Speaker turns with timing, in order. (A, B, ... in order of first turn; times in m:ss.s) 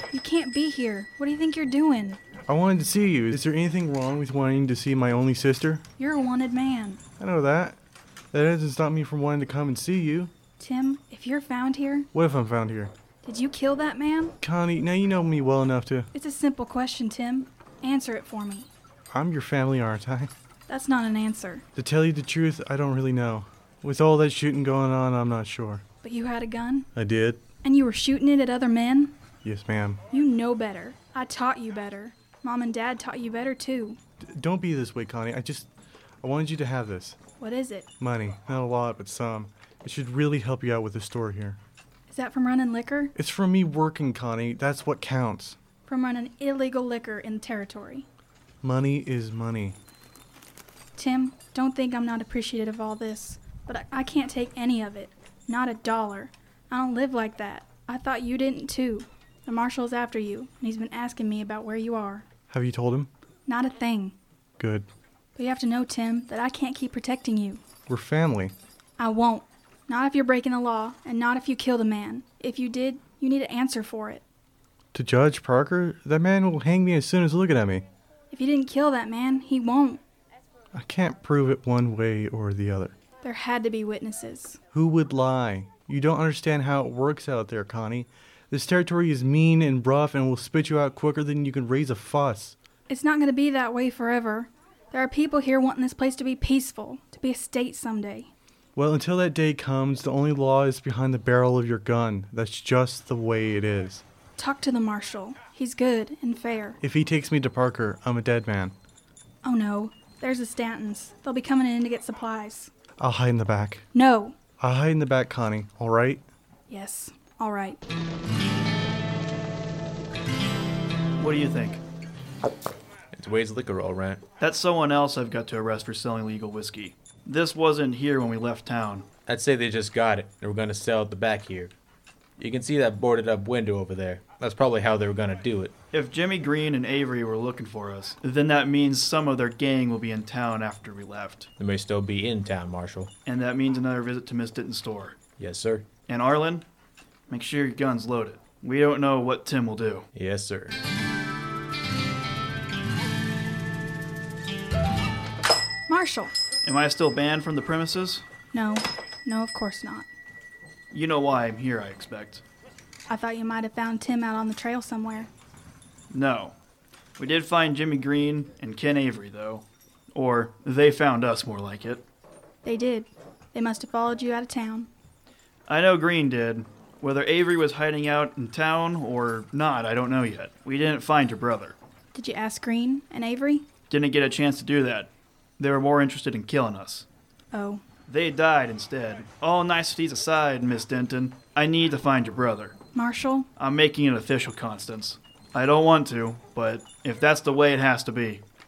0:00.1-0:02.2 A
0:02.5-0:05.8 B
0:06.0-0:07.0 A
0:07.2-0:07.8 B
0:08.3-0:10.3 B
0:10.6-0:12.1 A
0:12.1-0:12.9 B
0:13.2-0:14.4 A
0:14.4-0:16.1 B
0:16.1-0:18.7 A
0:19.1-0:20.3 B
0:20.7-0:21.6 A
0:21.7-0:25.8 B
0:26.0-0:26.9 A
0:26.9-0:27.4 B
0:27.6-0:29.1 A
0:29.4-0:30.0 B
0:30.1-0:34.0 A
0:34.2-0:35.7 B
0:36.2-0:37.2 B
0:37.4-0:37.9 A
0:38.0-0:41.6 B
0:42.1-0:43.1 A
0:43.1-0:45.6 B
0:45.9-0:48.0 A
0:48.6-0:49.8 B
0:51.0-1:02.2 A
1:02.5-1:03.1 B
1:03.4-1:04.1 A
1:04.6-1:04.9 B
1:05.4-1:07.6 A
1:07.9-1:08.5 B
1:09.0-1:14.2 A
1:14.9-1:17.8 B
1:18.3-1:20.0 A
1:20.7-1:22.9 B
1:23.2-1:24.6 A
1:24.7-1:32.5 B
1:32.9-1:38.3 A
1:38.8-1:44.0 B
1:44.4-1:46.8 A
1:46.8-1:48.7 B
1:49.4-1:52.7 A
1:53.0-1:53.8 B
1:53.9-1:54.4 A
1:54.6-1:56.2 B
1:56.7-1:57.8 A
2:01.2-2:01.8 C
2:03.1-2:04.2 D
2:04.4-2:09.0 C
2:09.2-2:11.7 D
2:12.4-2:15.7 D
2:15.9-2:21.5 C
2:21.6-2:23.1 D
2:23.2-2:25.2 C
2:25.4-2:25.9 D
2:26.1-2:26.6 C
2:27.3-2:30.0 C
2:30.1-2:30.8 D
2:35.9-2:36.3 A
2:36.6-2:38.2 C
2:38.5-2:40.1 A
2:40.9-2:42.4 C
2:43.1-2:45.3 A
2:46.1-2:46.5 C
2:47.2-2:52.0 C
2:52.6-2:54.9 A
2:55.7-3:01.8 C
3:02.1-3:03.6 A
3:03.9-3:07.0 C
3:07.5-3:07.8 A
3:08.1-3:12.7 C
3:12.9-3:13.5 A
3:13.6-3:18.4 C